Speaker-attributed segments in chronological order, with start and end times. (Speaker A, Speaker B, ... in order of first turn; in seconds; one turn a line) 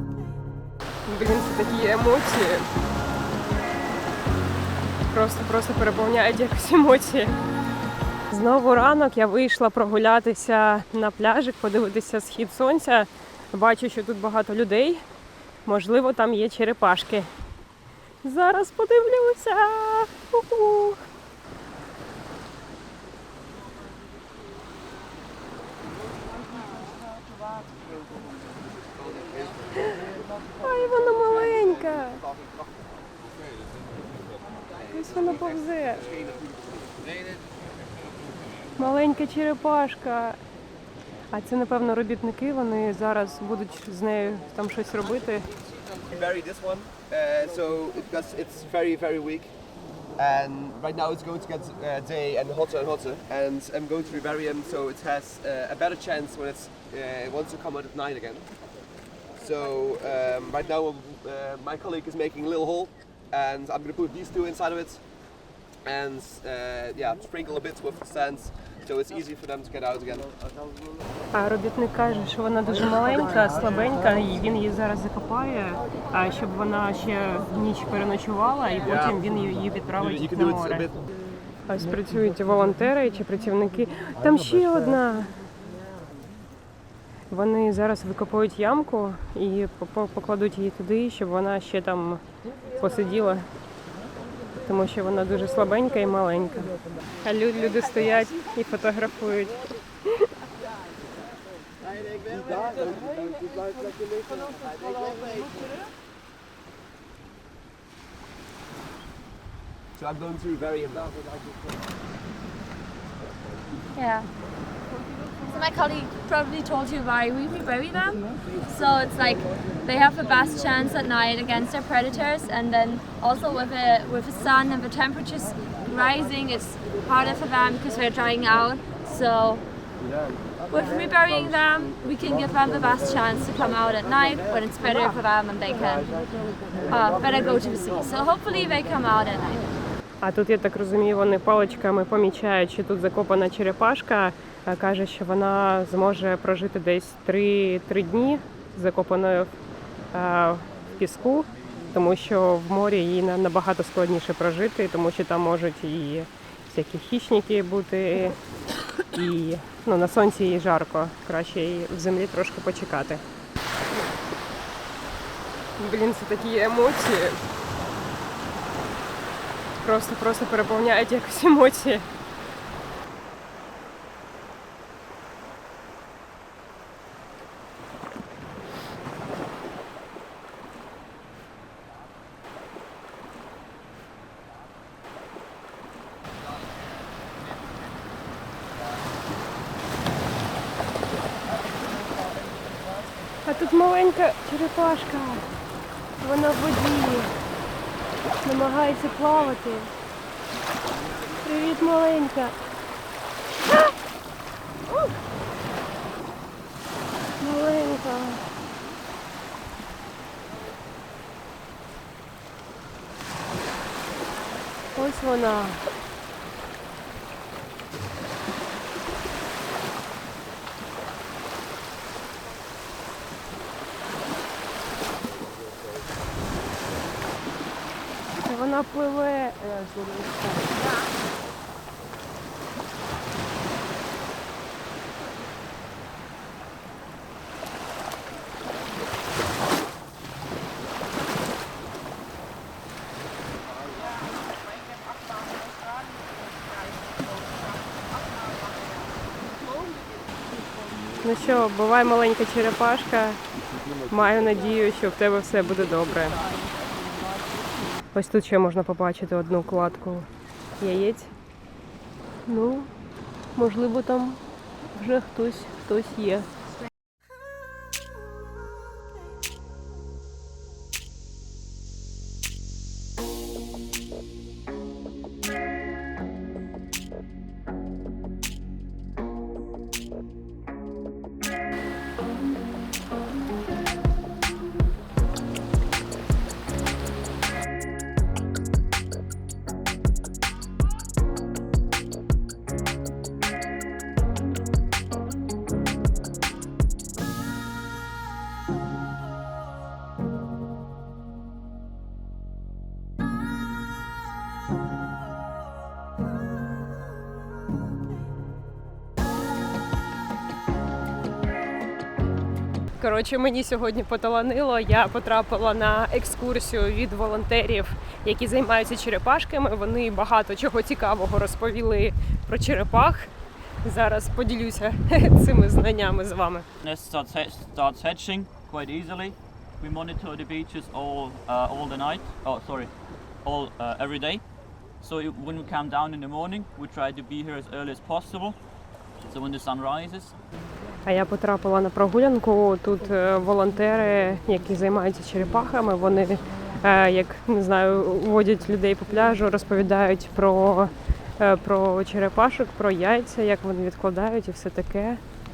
Speaker A: 1.1-2.6
Speaker A: 5.1-7.3
Speaker A: 8.3-15.0
Speaker A: 15.7-17.3
Speaker A: 18.2-21.0
Speaker B: 28.7-29.7
Speaker A: 30.6-32.2
Speaker B: 31.4-32.9
Speaker B: 34.6-35.4
Speaker A: 34.9-36.0
Speaker B: 35.9-37.3
Speaker A: 38.8-40.4
Speaker A: 41.3-45.5
Speaker B: 46.1-49.5
Speaker B: 50.2-58.5
Speaker B: 59.4-65.0
Speaker B: 65.9-70.3
Speaker A: 71.3-80.9
Speaker B: 78.8-79.3
Speaker B: 79.8-81.0
Speaker A: 81.7-85.3
Speaker A: 87.3-92.2
Speaker A: 92.8-93.5
Speaker A: 94.6-99.6
Speaker B: 102.0-103.5
Speaker B: 104.4-105.5
Speaker B: 110.0-111.2
Speaker C: 114.0-114.3
Speaker C: 115.5-129.6
Speaker C: 130.7-136.1
Speaker C: 136.8-139.6
Speaker A: 140.2-149.5
Speaker A: 150.1-158.4
Speaker A: 159.1-163.2
Speaker A: 165.8-167.4
Speaker A: 169.8-172.1
Speaker A: 193.4-195.5
Speaker A: 196.2-197.3
Speaker A: 198.4-199.9
Speaker A: 201.4-202.5
Speaker A: 207.4-208.4
Speaker A: 214.9-215.8
Speaker A: 228.4-230.7
Speaker A: 251.2-253.4
Speaker A: 254.1-256.4
Speaker A: 258.1-260.3
Speaker A: 260.8-261.3
Speaker A: 262.5-262.9
Speaker A: 263.6-264.4
Speaker A: 265.0-266.5
Speaker A: 313.0-323.3
Speaker A: 323.8-326.6
Speaker D: 326.8-332.9
Speaker D: 333.4-334.4
Speaker D: 335.0-338.6
Speaker D: 339.3-340.4
Speaker A: 341.1-355.2